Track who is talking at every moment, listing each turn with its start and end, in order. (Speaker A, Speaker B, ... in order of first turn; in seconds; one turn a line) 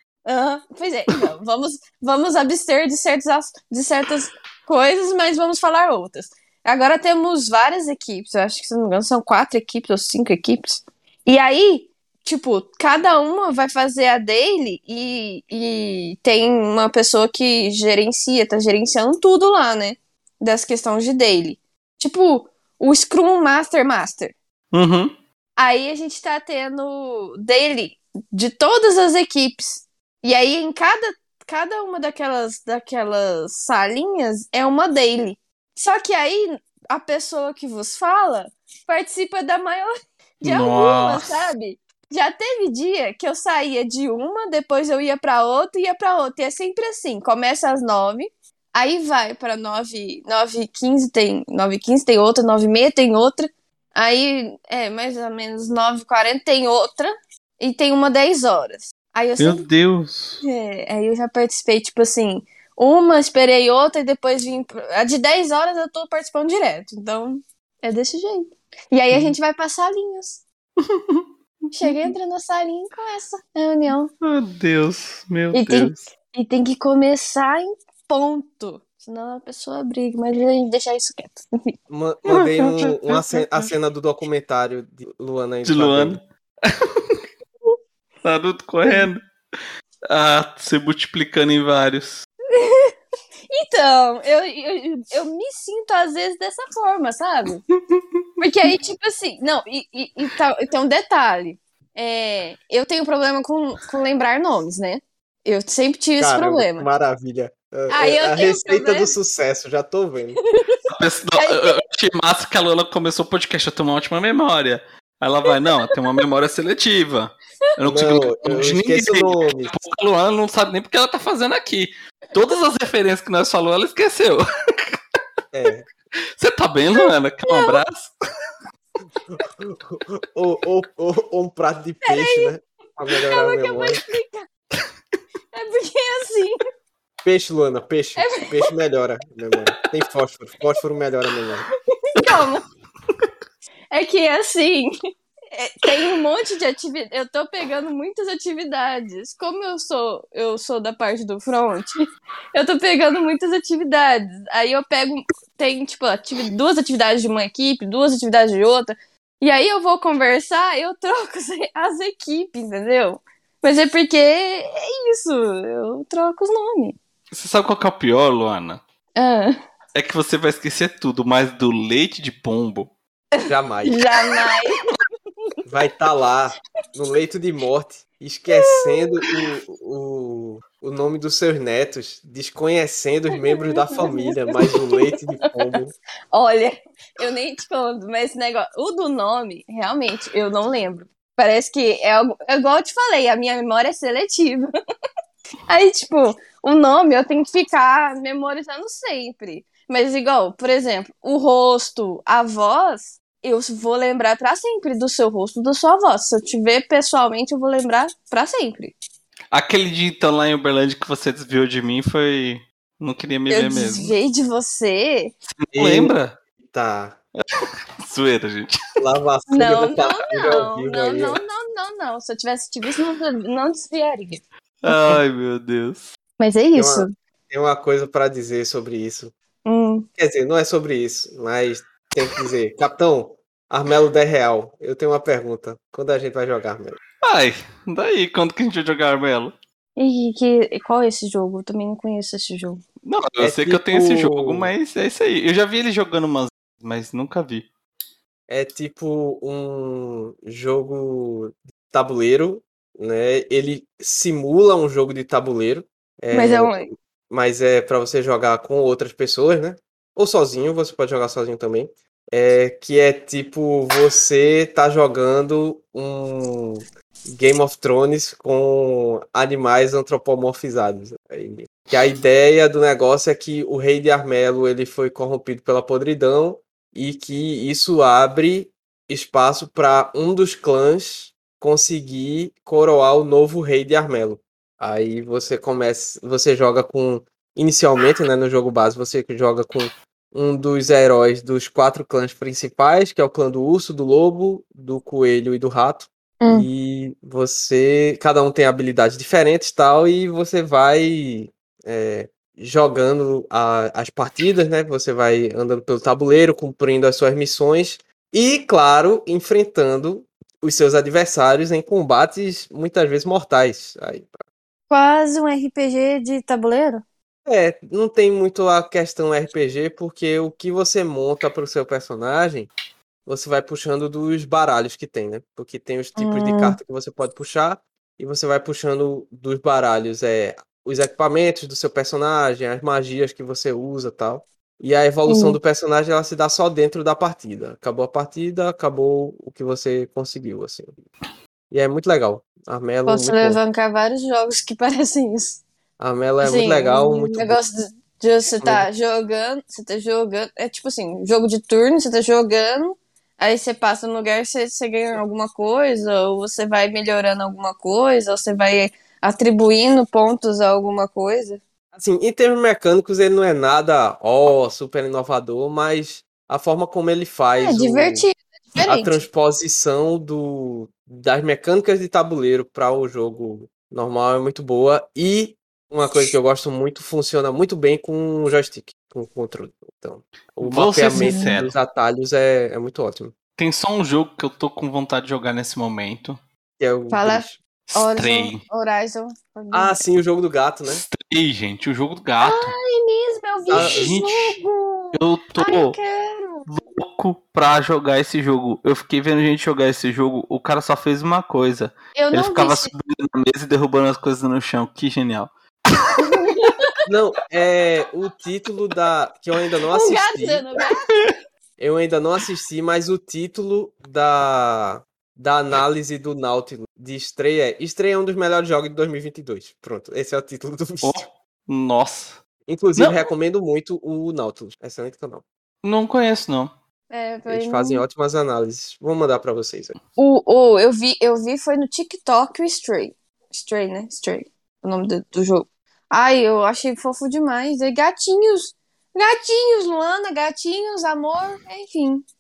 Speaker A: 0.3-24.4
Speaker B: 24.7-25.1
Speaker A: 25.6-59.7
Speaker B: 40.4-41.3
Speaker B: 59.4-60.4
Speaker A: 60.4-70.4
Speaker B: 70.8-71.3
Speaker A: 71.7-74.1
Speaker B: 71.8-72.1
Speaker B: 74.2-76.1
Speaker A: 75.5-81.7
Speaker C: 81.9-86.2
Speaker B: 82.3-83.7
Speaker B: 85.6-87.2
Speaker B: 88.2-89.2
Speaker B: 90.1-92.3
Speaker A: 92.5-93.0
Speaker A: 93.5-97.6
Speaker A: 98.4-106.9
Speaker C: 106.2-110.4
Speaker A: 107.9-109.1
Speaker B: 110.9-125.0
Speaker A: 111.4-111.8
Speaker C: 117.8-119.9
Speaker C: 125.5-125.9
Speaker B: 126.4-128.1
Speaker A: 127.0-127.8
Speaker C: 129.6-134.0
Speaker A: 132.1-132.5
Speaker A: 133.1-134.5
Speaker A: 135.5-136.6
Speaker C: 137.2-141.7
Speaker A: 138.2-138.5
Speaker A: 142.2-142.6
Speaker A: 143.9-144.9
Speaker A: 145.5-167.0
Speaker B: 167.3-168.8
Speaker A: 169.2-169.6
Speaker B: 169.9-172.9
Speaker A: 173.4-174.8
Speaker C: 173.5-174.0
Speaker C: 175.7-185.9
Speaker A: 178.5-179.1
Speaker A: 183.9-185.5
Speaker A: 186.3-194.7
Speaker A: 195.7-208.9
Speaker B: 209.5-214.1
Speaker A: 213.5-215.3
Speaker B: 215.6-216.4
Speaker C: 215.8-217.2
Speaker B: 218.0-218.8
Speaker C: 219.0-221.4
Speaker A: 219.5-224.4
Speaker B: 224.8-226.1
Speaker A: 226.4-227.1
Speaker C: 226.7-229.3
Speaker A: 229.7-230.1
Speaker C: 230.2-237.0
Speaker B: 237.2-239.5
Speaker A: 240.0-242.8
Speaker B: 243.0-247.7
Speaker C: 243.4-244.7
Speaker C: 248.5-256.8
Speaker A: 256.3-256.9
Speaker C: 257.3-314.4
Speaker A: 296.4-296.7
Speaker A: 314.9-317.0
Speaker C: 317.5-322.7
Speaker C: 323.3-340.9
Speaker A: 326.2-326.8
Speaker A: 335.3-335.6
Speaker C: 341.7-343.6
Speaker A: 343.1-345.6
Speaker C: 346.0-347.6
Speaker A: 346.4-361.6
Speaker C: 348.6-348.9
Speaker C: 361.9-368.3
Speaker A: 367.6-369.2
Speaker C: 368.9-383.3
Speaker B: 380.6-381.7
Speaker A: 381.1-381.6
Speaker B: 383.6-386.4
Speaker C: 386.8-387.6
Speaker A: 387.1-390.1
Speaker B: 387.9-388.6
Speaker C: 389.7-391.0
Speaker B: 390.9-392.8
Speaker A: 392.4-396.7
Speaker C: 393.7-394.1
Speaker B: 393.7-394.6
Speaker B: 395.1-396.0
Speaker B: 396.7-406.3
Speaker A: 402.1-402.9
Speaker A: 406.2-406.9
Speaker C: 407.1-410.6
Speaker A: 409.9-411.1
Speaker C: 411.8-421.2
Speaker B: 421.0-422.4
Speaker C: 422.7-425.4
Speaker B: 423.0-423.3
Speaker B: 425.8-426.7
Speaker A: 427.1-428.0
Speaker C: 427.5-430.0
Speaker A: 430.2-442.2